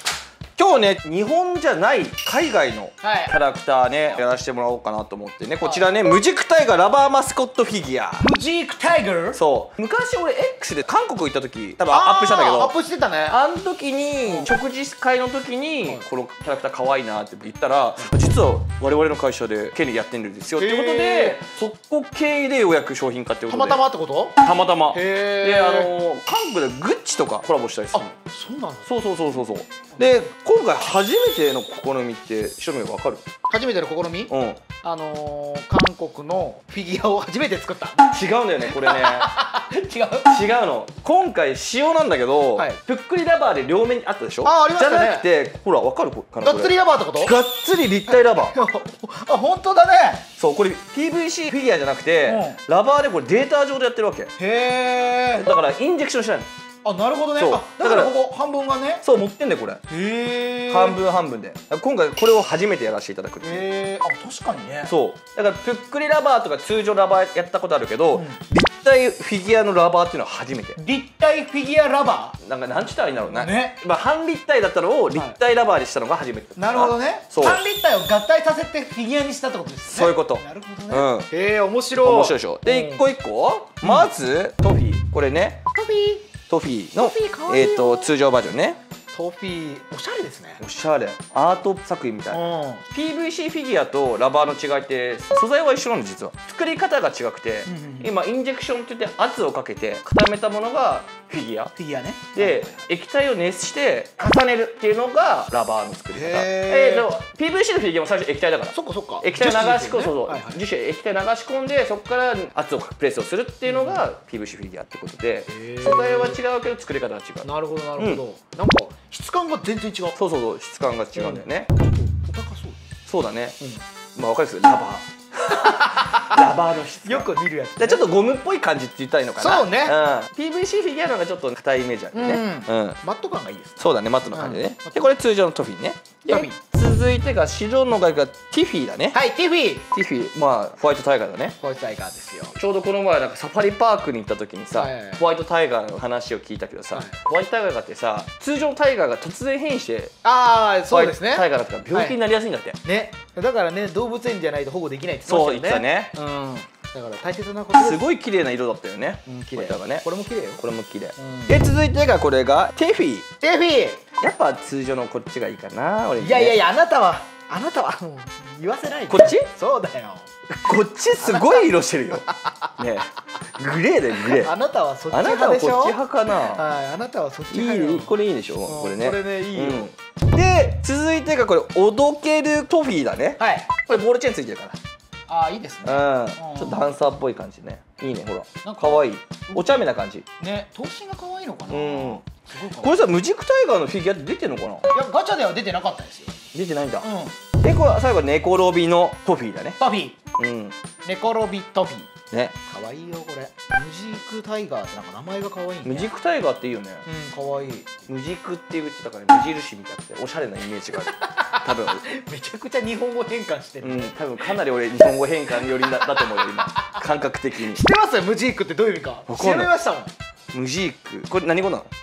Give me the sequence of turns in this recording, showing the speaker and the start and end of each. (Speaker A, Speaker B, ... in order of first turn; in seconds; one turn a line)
Speaker A: 0.6-8.3
Speaker B: 3.0-3.3
Speaker B: 5.6-5.9
Speaker B: 8.2-9.4
Speaker A: 9.3-12.7
Speaker B: 11.9-13.4
Speaker A: 13.3-23.8
Speaker B: 14.2-14.5
Speaker B: 20.6-21.4
Speaker B: 23.5-24.4
Speaker A: 24.4-28.1
Speaker B: 24.9-25.9
Speaker B: 27.9-28.9
Speaker A: 28.9-33.2
Speaker B: 33.5-40.4
Speaker A: 34.3-34.6
Speaker A: 38.1-39.4
Speaker A: 40.2-48.5
Speaker B: 42.5-42.8
Speaker B: 44.4-45.3
Speaker B: 46.4-47.4
Speaker B: 48.1-50.3
Speaker A: 50.4-54.3
Speaker B: 52.2-52.6
Speaker B: 54.4-55.5
Speaker A: 55.4-56.5
Speaker B: 56.8-59.0
Speaker A: 57.4-58.1
Speaker A: 59.0-59.8
Speaker B: 59.9-61.0
Speaker A: 60.7-63.6
Speaker B: 63.4-64.9
Speaker A: 64.9-70.8
Speaker B: 68.1-68.4
Speaker B: 70.8-72.4
Speaker A: 72.4-77.6
Speaker B: 73.3-73.8
Speaker B: 75.1-75.4
Speaker B: 76.5-83.0
Speaker A: 79.9-81.3
Speaker A: 82.0-85.6
Speaker B: 83.8-84.1
Speaker B: 85.7-86.3
Speaker A: 86.5-88.8
Speaker B: 87.0-88.1
Speaker B: 89.1-90.6
Speaker A: 90.6-101.7
Speaker B: 92.3-92.9
Speaker B: 97.7-98.1
Speaker B: 101.8-102.8
Speaker A: 102.3-118.2
Speaker B: 106.1-107.1
Speaker B: 108.7-110.6
Speaker B: 113.7-114.0
Speaker B: 115.5-116.4
Speaker B: 117.4-120.2
Speaker A: 120.2-121.7
Speaker B: 121.1-122.8
Speaker A: 123.1-123.5
Speaker A: 124.1-133.0
Speaker B: 125.5-126.3
Speaker B: 127.0-128.1
Speaker B: 129.4-130.0
Speaker B: 132.1-135.1
Speaker A: 133.8-139.2
Speaker B: 136.2-136.6
Speaker B: 139.1-139.8
Speaker A: 139.9-141.6
Speaker B: 141.6-142.6
Speaker A: 142.6-150.1
Speaker B: 144.7-145.2
Speaker B: 150.2-152.2
Speaker A: 150.9-152.8
Speaker B: 152.8-158.0
Speaker A: 155.2-156.1
Speaker A: 157.7-160.1
Speaker B: 159.3-160.6
Speaker A: 160.6-163.2
Speaker B: 161.2-161.6
Speaker B: 163.4-164.0
Speaker A: 164.2-166.6
Speaker B: 166.2-170.3
Speaker A: 169.1-169.5
Speaker A: 170.5-172.3
Speaker B: 171.2-172.7
Speaker A: 172.8-174.5
Speaker B: 174.2-178.1
Speaker A: 175.1-176.6
Speaker A: 177.5-184.8
Speaker B: 178.6-179.9
Speaker B: 183.4-183.7
Speaker B: 185.3-186.9
Speaker A: 185.8-190.2
Speaker B: 188.6-189.8
Speaker B: 190.4-193.0
Speaker A: 191.7-192.2
Speaker A: 192.8-194.9
Speaker B: 194.9-196.4
Speaker A: 196.5-197.1
Speaker B: 197.0-197.3
Speaker A: 197.6-199.8
Speaker B: 199.8-200.2
Speaker A: 200.4-200.8
Speaker B: 201.0-206.1
Speaker A: 205.8-207.0
Speaker B: 207.1-208.0
Speaker A: 208.1-212.0
Speaker B: 211.1-214.6
Speaker A: 213.8-217.8
Speaker B: 215.6-216.9
Speaker B: 217.6-220.1
Speaker A: 219.3-219.7
Speaker A: 220.5-221.9